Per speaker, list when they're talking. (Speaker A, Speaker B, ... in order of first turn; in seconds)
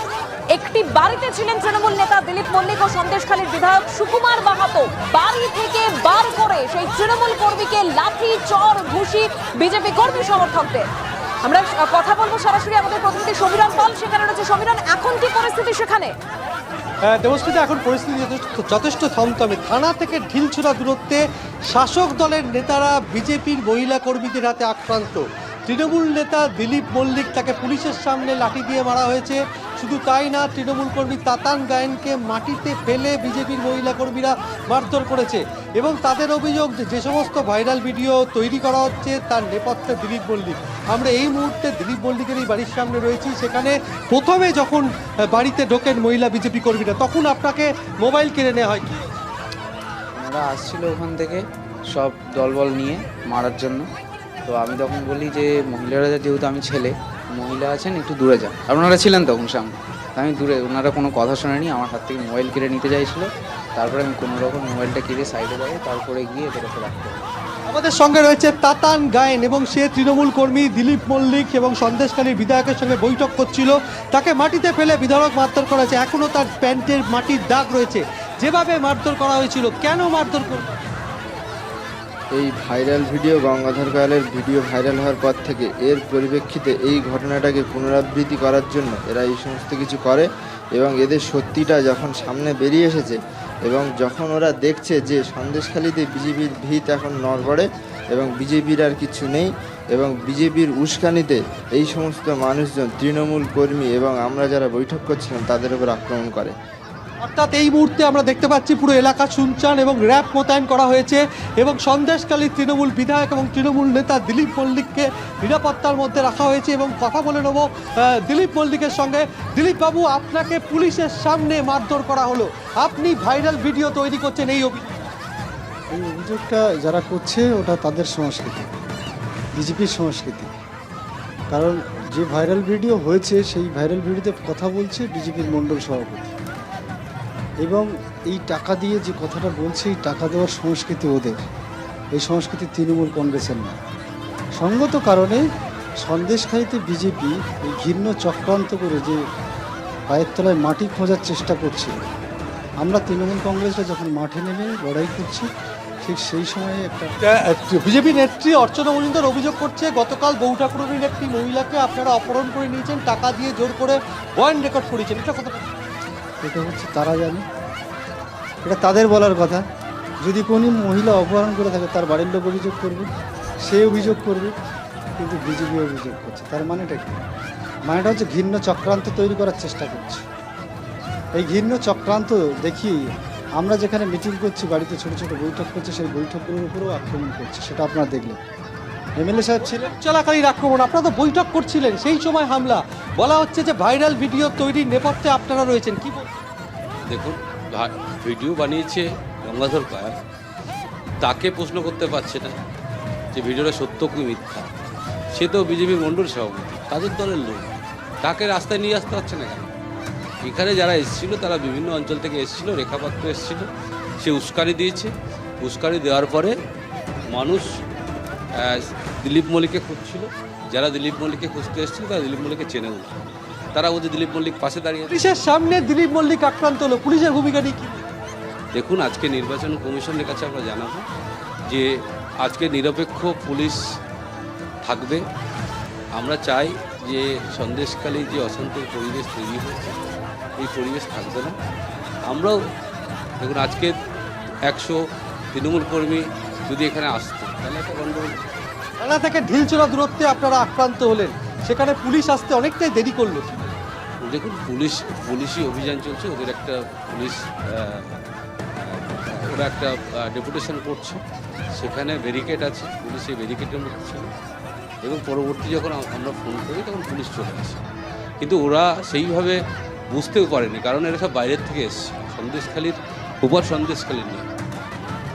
Speaker A: 0.5-10.9, 11.4-16.1
Speaker B: 17.0-49.1, 67.7-80.8, 107.2-125.0, 157.2-165.6, 189.7-196.4, 225.1-228.0, 249.0-253.6
Speaker C: 50.2-53.9, 54.5-67.3
Speaker D: 82.3-106.5
Speaker E: 125.9-128.7, 129.6-130.5, 131.5-136.3, 137.6-141.4, 142.1-143.8, 144.6-145.4, 146.0-149.2, 150.1-151.9, 152.8-155.5, 156.0-157.1, 166.4-167.4, 168.6-169.6, 170.2-173.1, 173.6-174.5, 175.2-177.2, 177.9-180.2, 181.3-183.0, 183.6-188.4, 189.2-189.8
Speaker F: 197.1-200.2, 201.2-202.6, 203.3-204.7, 205.3-207.7, 208.2-209.7, 210.4-213.7, 214.2-216.6, 217.3-217.7, 218.6-223.2, 223.8-225.4, 228.7-231.1, 232.4-233.8, 234.8-235.2, 236.2-240.0, 240.6-241.5, 242.3-242.6, 243.4-243.9, 244.7-245.0, 245.5-248.4, 254.2-258.2, 258.8-261.2, 261.8-264.3, 265.0-267.8, 268.4-269.6, 270.1-274.5